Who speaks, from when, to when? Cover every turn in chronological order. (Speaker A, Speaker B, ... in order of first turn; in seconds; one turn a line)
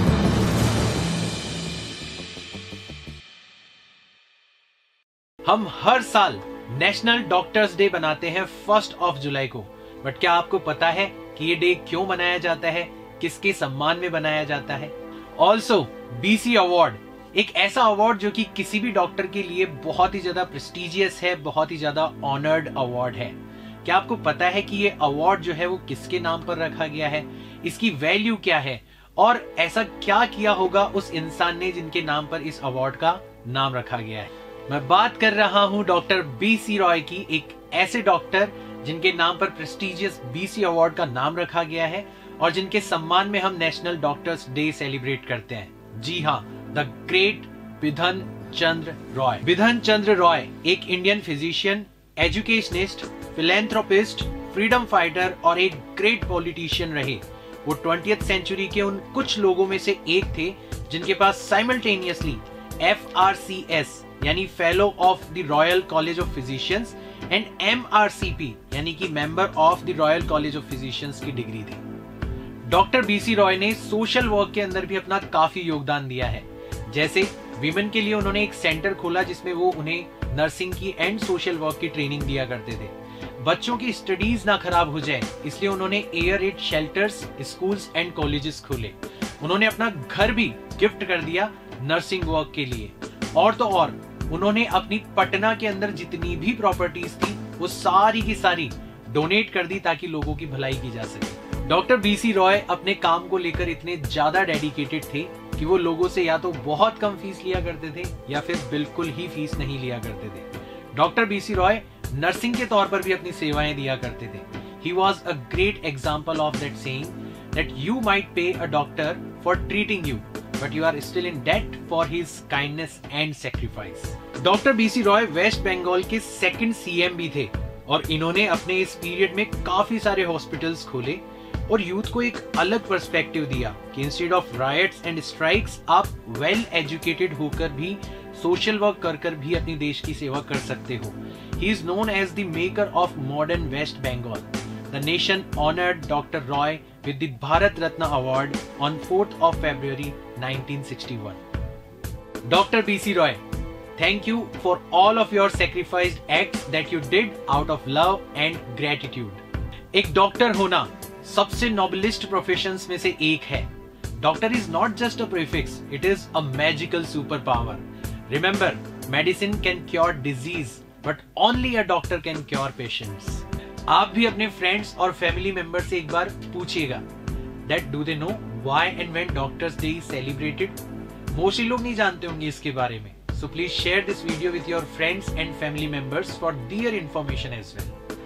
Speaker A: 5.4-71.8
Speaker A: 72.7-151.4
Speaker A: 152.4-153.4
Speaker A: 154.0-159.4
Speaker A: 159.9-177.0
Speaker A: 177.7-180.8
Speaker A: 181.3-188.0